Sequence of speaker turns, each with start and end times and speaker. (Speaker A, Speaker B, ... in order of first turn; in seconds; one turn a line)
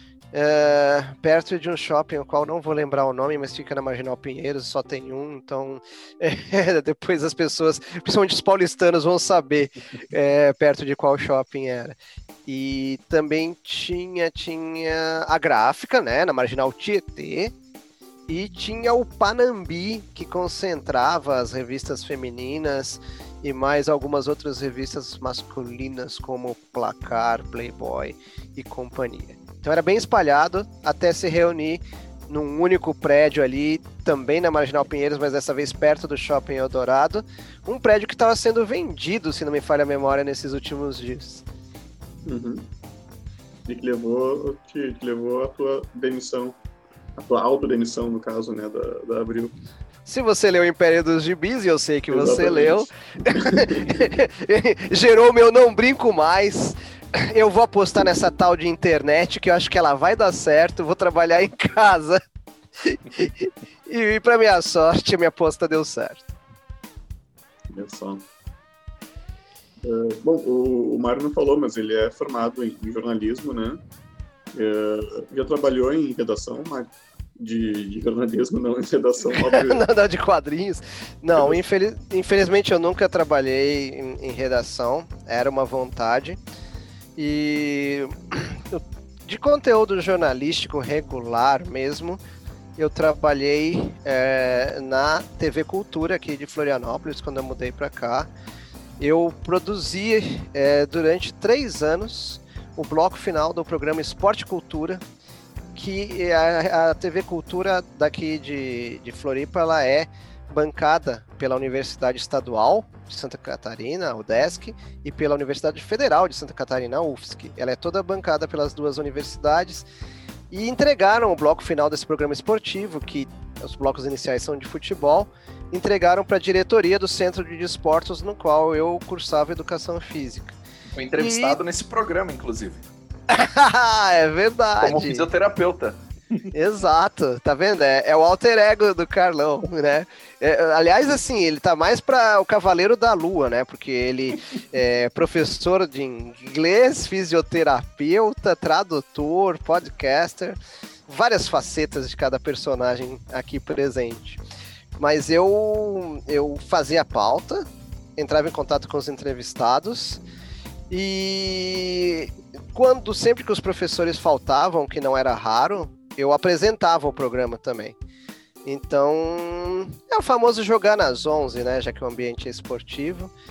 Speaker A: 0.3-11.9
Speaker A: 12.5-17.5
Speaker A: 18.3-41.4
Speaker B: 42.3-42.7
Speaker B: 43.7-46.6
Speaker B: 47.2-49.5
Speaker A: 50.1-62.2
Speaker B: 52.1-53.9
Speaker A: 62.8-66.3
Speaker B: 67.7-68.2
Speaker B: 69.8-73.8
Speaker B: 74.5-79.8
Speaker A: 79.2-86.4
Speaker A: 87.2-92.2
Speaker A: 92.8-98.3
Speaker A: 99.0-105.0
Speaker A: 105.8-119.9
Speaker A: 120.5-130.6
Speaker C: 130.9-132.9
Speaker A: 131.2-131.6
Speaker A: 133.3-135.2
Speaker C: 134.8-136.5
Speaker A: 136.5-154.4
Speaker A: 155.0-157.7
Speaker A: 158.2-160.2
Speaker A: 160.9-168.0
Speaker A: 168.7-173.3